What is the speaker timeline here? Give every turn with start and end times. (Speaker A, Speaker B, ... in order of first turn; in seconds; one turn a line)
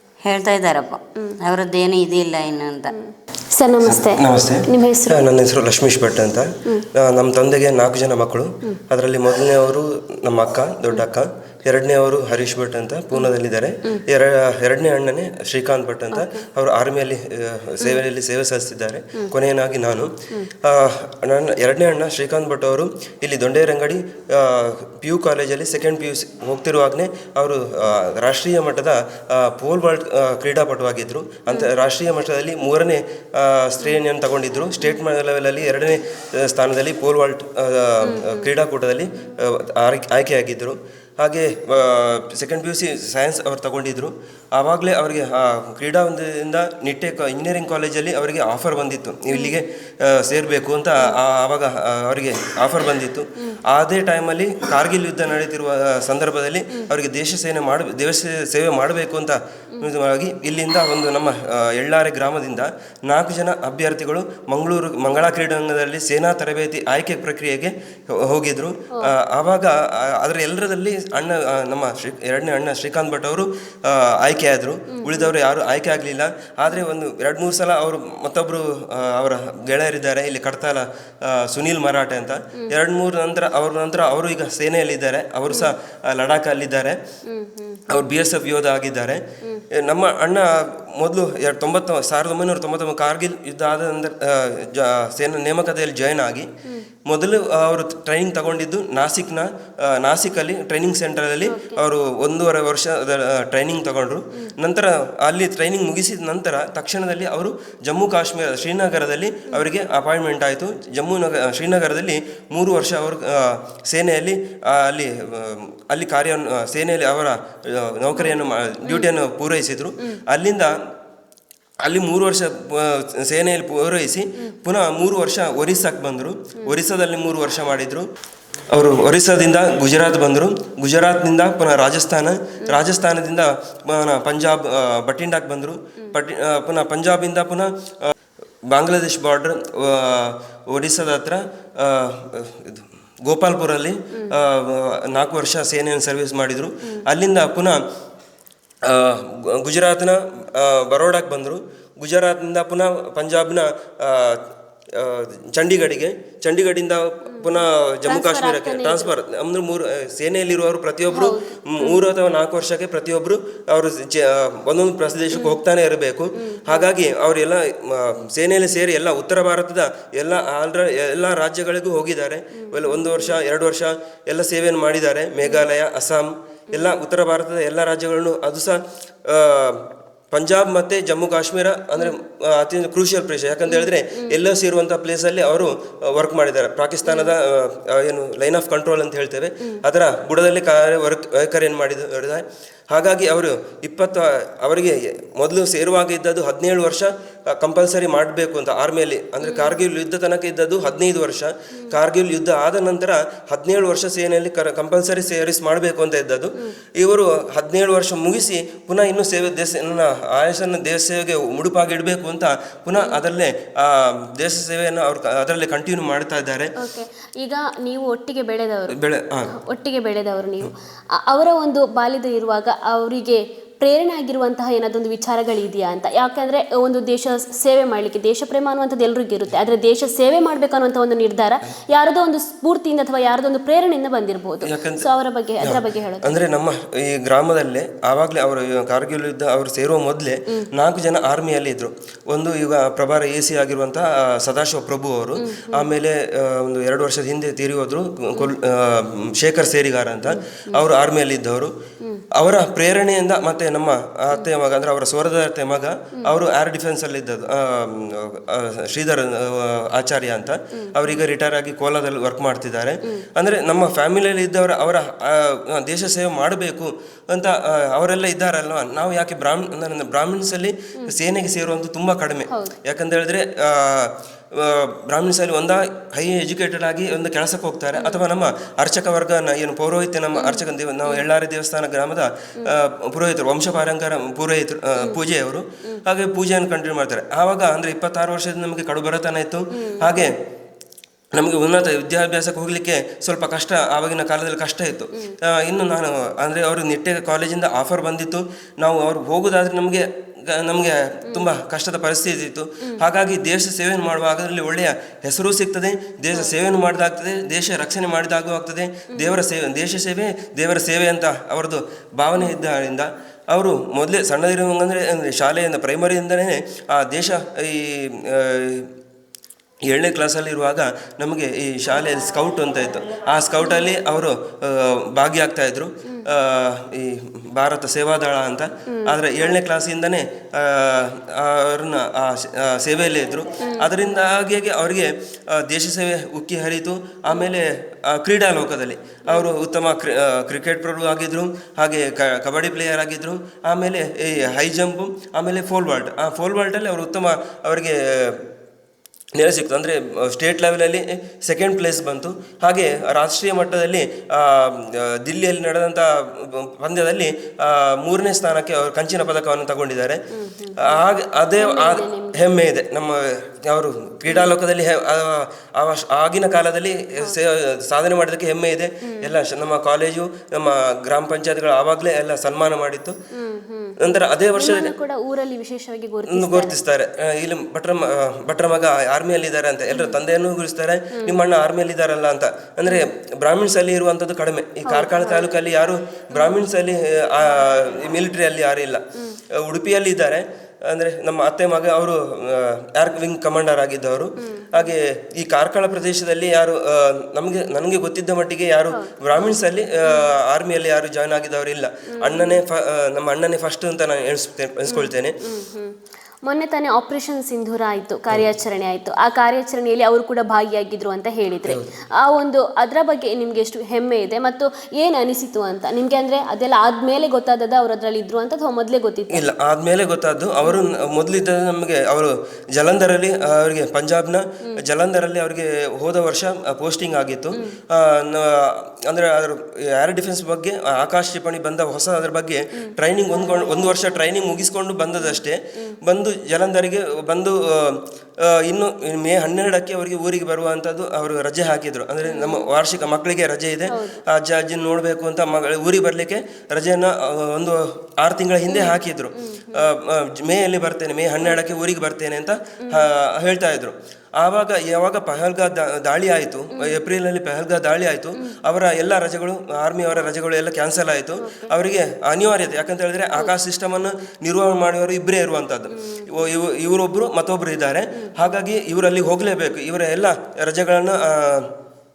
Speaker A: 0.2-2.9
Speaker B: 2.9-5.3
Speaker C: 3.8-20.1
Speaker B: 16.1-16.4
Speaker C: 20.6-87.0
Speaker B: 38.0-38.5
Speaker B: 49.3-49.6
Speaker B: 75.0-75.3
Speaker B: 85.5-85.7
Speaker B: 87.3-87.9
Speaker C: 87.9-89.2
Speaker C: 89.8-96.5
Speaker C: 97.1-120.7
Speaker B: 101.4-101.8
Speaker B: 118.1-119.1
Speaker C: 121.8-128.1
Speaker C: 128.7-138.1
Speaker B: 132.6-132.9
Speaker C: 138.7-147.8
Speaker C: 148.9-154.4
Speaker C: 155.0-216.7
Speaker B: 157.3-159.1
Speaker B: 161.1-162.0
Speaker B: 165.3-165.6
Speaker B: 166.4-166.9
Speaker B: 172.6-173.4
Speaker B: 183.7-184.4
Speaker B: 187.1-187.3
Speaker B: 199.4-199.8
Speaker B: 213.0-213.2
Speaker B: 216.8-219.0
Speaker C: 218.9-219.5
Speaker B: 219.6-236.4
Speaker C: 234.7-235.1
Speaker C: 235.6-251.7
Speaker B: 245.4-245.9
Speaker B: 250.3-250.8
Speaker C: 252.4-290.3
Speaker B: 260.8-261.2
Speaker B: 272.5-272.8
Speaker B: 277.9-278.2
Speaker B: 280.4-281.3
Speaker B: 289.7-290.3
Speaker C: 291.4-318.9
Speaker B: 306.3-306.6
Speaker B: 309.1-309.4
Speaker C: 319.9-348.4
Speaker B: 328.9-329.5
Speaker B: 333.6-334.0
Speaker B: 339.3-339.5
Speaker C: 349.4-360.2
Speaker B: 360.3-361.0
Speaker C: 360.9-373.2
Speaker B: 361.6-362.5
Speaker B: 364.3-364.5
Speaker B: 369.1-369.3
Speaker B: 373.3-376.8
Speaker C: 374.0-374.9
Speaker C: 376.3-389.0
Speaker B: 379.9-380.2
Speaker B: 384.9-385.5
Speaker B: 386.3-386.6
Speaker C: 389.6-405.3
Speaker B: 394.4-394.9
Speaker B: 398.9-400.3
Speaker B: 402.2-402.6
Speaker B: 404.9-405.9
Speaker B: 406.5-419.5
Speaker C: 419.3-438.0
Speaker B: 432.8-434.2
Speaker B: 435.2-435.9
Speaker C: 438.5-471.7
Speaker B: 442.2-442.7
Speaker B: 443.9-444.2
Speaker B: 448.7-449.9
Speaker B: 452.8-453.1
Speaker B: 456.8-457.0
Speaker B: 461.4-461.7
Speaker B: 465.9-466.3